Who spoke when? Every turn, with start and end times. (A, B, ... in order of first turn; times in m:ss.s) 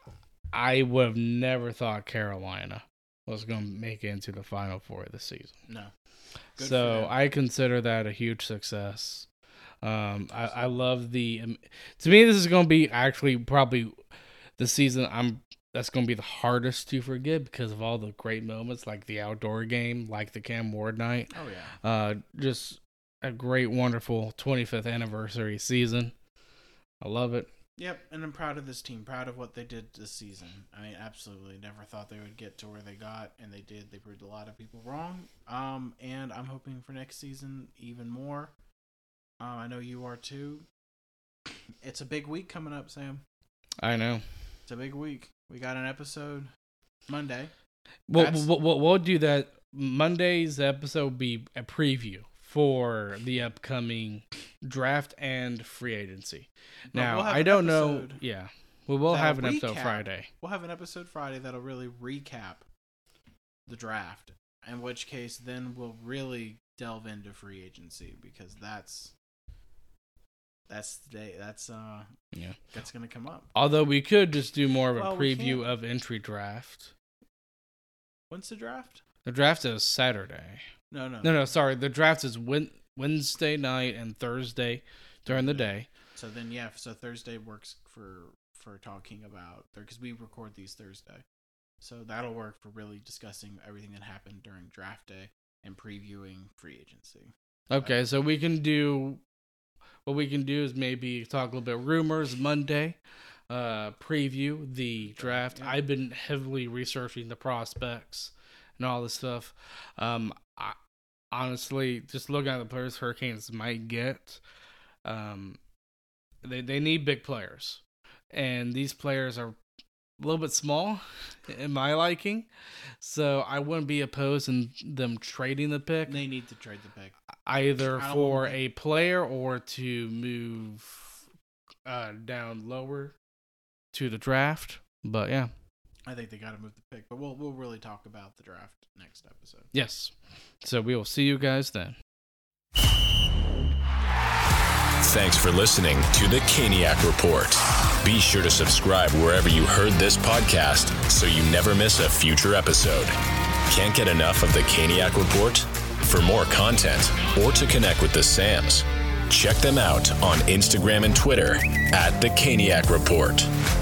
0:00.5-0:05.6 A
0:05.7-0:05.9 B
0:06.6-0:07.1 B
0:06.6-0:09.3 A
0:09.8-0:14.0 A
0:10.3-0:10.8 B
0:14.6-0:26.1 A
0:21.3-0:21.8 B
0:27.0-0:27.5 A
0:27.8-0:38.5 B
0:39.4-0:40.7 B
0:41.8-0:43.2 B
0:43.8-0:44.2 A
0:44.7-0:46.5 B
0:47.1-0:47.5 B
0:48.1-1:00.3 A
0:48.1-0:48.5 B
0:56.9-0:58.2 B
0:59.1-1:02.7 B
1:03.7-1:09.1 B
1:10.7-1:12.1 B
1:12.7-1:13.5 B
1:13.6-1:16.9 A
1:15.0-1:15.6 B
1:18.3-1:19.0 B
1:19.2-1:20.6 A
1:20.9-1:21.4 B
1:21.2-1:25.9 A
1:25.3-1:31.2 B
1:31.8-1:38.2 B
1:37.7-1:39.2 A
1:40.1-1:43.0 A
1:43.5-1:50.8 A
1:45.1-1:45.8 B
1:51.3-1:54.4 A
1:55.0-1:55.6 A
1:56.4-1:57.8 A
1:58.3-1:59.6 A
2:00.2-2:02.5 A
2:03.0-2:06.2 A
2:06.1-2:07.2 B
2:07.5-2:11.2 A
2:08.0-2:08.6 B
2:11.8-2:13.2 A
2:13.9-2:15.5 A
2:16.1-2:19.7 B
2:19.7-2:22.0 A
2:25.0-2:33.2 C
2:33.7-2:43.5 C